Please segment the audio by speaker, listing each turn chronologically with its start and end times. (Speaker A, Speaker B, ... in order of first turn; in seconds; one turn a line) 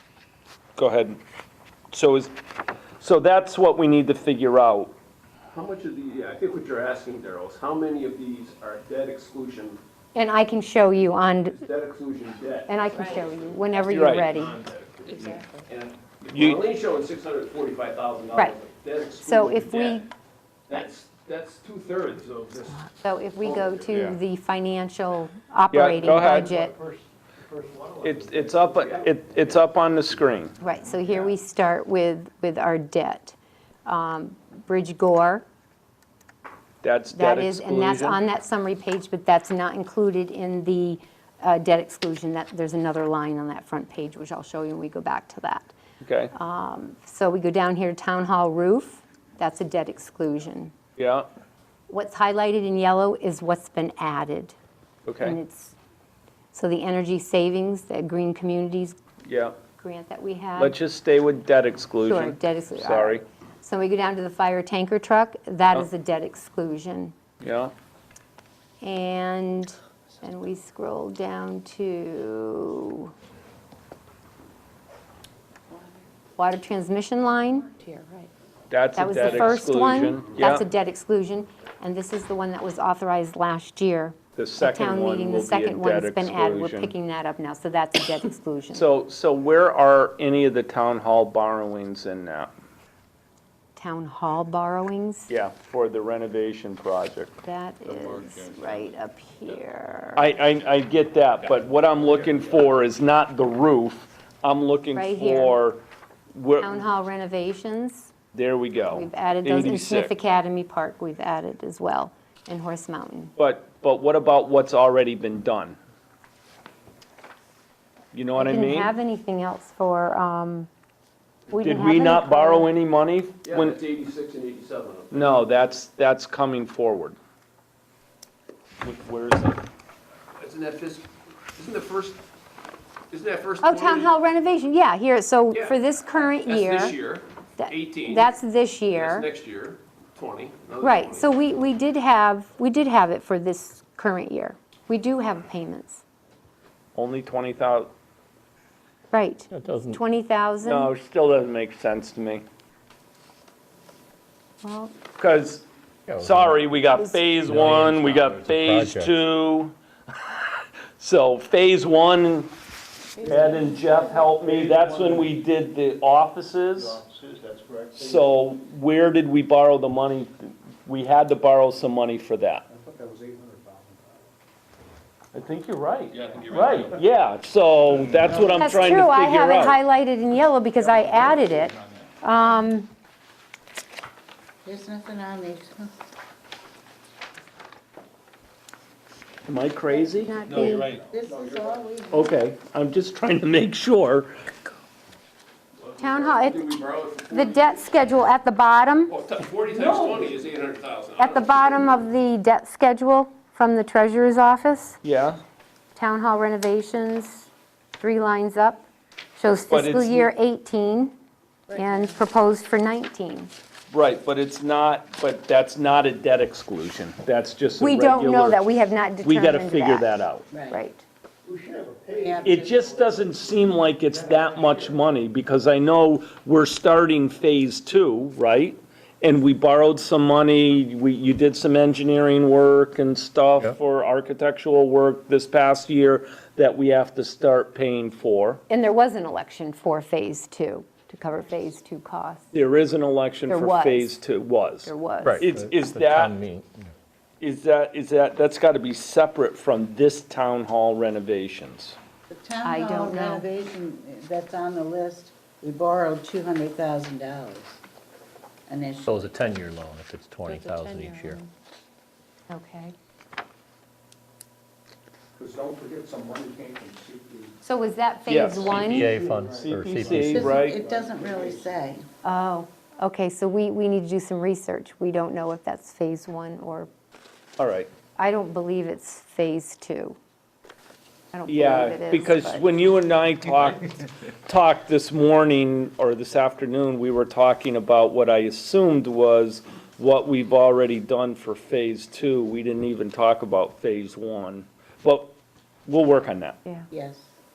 Speaker A: 0.8-1.2
Speaker A: 1.9-2.3
Speaker A: 3.0-4.9
Speaker B: 5.5-9.8
Speaker C: 10.1-11.6
Speaker B: 11.5-19.6
Speaker C: 12.7-14.6
Speaker A: 13.9-14.3
Speaker D: 15.1-15.6
Speaker A: 16.3-16.6
Speaker C: 19.2-20.1
Speaker A: 19.4-20.0
Speaker B: 20.7-22.9
Speaker C: 22.9-26.7
Speaker B: 23.4-23.9
Speaker A: 23.9-24.2
Speaker A: 25.7-26.5
Speaker E: 26.0-29.6
Speaker A: 28.0-30.5
Speaker B: 28.7-29.6
Speaker C: 30.6-35.4
Speaker E: 30.7-31.3
Speaker A: 36.8-38.2
Speaker C: 37.1-45.7
Speaker A: 46.0-46.3
Speaker C: 46.3-50.7
Speaker A: 51.0-51.3
Speaker C: 51.9-54.5
Speaker A: 55.0-55.4
Speaker C: 55.2-55.7
Speaker C: 56.5-59.0
Speaker A: 59.2-59.5
Speaker C: 59.8-60.8
Speaker A: 60.6-63.2
Speaker C: 62.0-67.1
Speaker A: 67.4-67.7
Speaker C: 68.8-73.1
Speaker D: 75.7-76.0
Speaker C: 76.4-77.7
Speaker A: 78.7-80.7
Speaker C: 79.0-88.8
Speaker A: 84.3-86.9
Speaker A: 88.7-92.5
Speaker C: 93.8-95.3
Speaker A: 95.3-97.3
Speaker C: 97.4-100.3
Speaker E: 97.9-98.7
Speaker A: 100.1-105.8
Speaker C: 104.9-105.6
Speaker A: 106.3-106.9
Speaker C: 106.6-108.1
Speaker A: 108.3-110.1
Speaker C: 108.8-113.3
Speaker A: 113.4-115.8
Speaker A: 118.1-118.9
Speaker C: 118.3-120.7
Speaker C: 121.5-122.7
Speaker A: 121.6-123.8
Speaker B: 123.4-125.4
Speaker A: 125.1-127.2
Speaker A: 128.8-129.6
Speaker B: 130.4-132.2
Speaker B: 133.1-134.1
Speaker C: 133.6-136.9
Speaker B: 135.5-135.8
Speaker B: 136.4-138.3
Speaker C: 137.6-139.2
Speaker B: 138.9-141.3
Speaker C: 140.8-146.0
Speaker A: 146.9-147.9
Speaker C: 149.1-150.9
Speaker F: 149.5-150.0
Speaker A: 150.6-152.4
Speaker C: 154.6-154.9
Speaker A: 155.2-155.6
Speaker F: 156.1-156.7
Speaker A: 156.2-159.7
Speaker C: 156.9-157.3
Speaker F: 157.4-159.1
Speaker A: 161.0-162.5
Speaker D: 163.2-164.1
Speaker E: 163.2-165.3
Speaker A: 163.2-167.0
Speaker E: 166.8-168.3
Speaker A: 167.9-172.6
Speaker E: 172.7-174.2
Speaker A: 175.3-179.8
Speaker B: 176.1-177.0
Speaker C: 178.4-182.9
Speaker E: 180.8-181.7
Speaker D: 184.6-185.9
Speaker A: 189.4-190.4
Speaker C: 189.9-190.9
Speaker D: 190.4-192.4
Speaker B: 190.5-191.9
Speaker A: 192.1-194.3
Speaker B: 195.8-198.0
Speaker C: 196.0-196.8
Speaker C: 197.3-199.1
Speaker B: 199.1-202.0
Speaker C: 201.2-205.0
Speaker A: 205.0-205.4
Speaker C: 205.9-207.5
Speaker C: 208.0-211.2
Speaker A: 209.7-210.3
Speaker D: 211.7-212.2
Speaker C: 211.7-213.5
Speaker A: 213.9-218.6
Speaker C: 217.8-221.0
Speaker A: 219.2-220.4
Speaker D: 220.5-220.8
Speaker E: 221.4-225.0
Speaker D: 222.1-222.6
Speaker A: 222.4-238.6
Speaker C: 238.7-242.5
Speaker A: 242.5-246.3
Speaker C: 243.5-244.2
Speaker C: 244.8-245.5
Speaker F: 245.2-246.9
Speaker A: 247.4-252.0
Speaker D: 252.3-257.8
Speaker C: 252.6-253.4
Speaker D: 258.7-259.3
Speaker F: 259.0-261.4
Speaker D: 260.4-261.4
Speaker C: 262.5-262.9
Speaker E: 265.4-267.6
Speaker C: 267.6-269.2
Speaker A: 268.3-270.8
Speaker E: 268.6-271.8
Speaker F: 268.6-270.6
Speaker D: 270.1-272.1
Speaker C: 272.2-276.9
Speaker A: 277.6-277.9
Speaker C: 278.2-280.2
Speaker C: 281.3-282.8
Speaker A: 281.5-295.3
Speaker A: 295.9-296.6
Speaker D: 296.9-297.3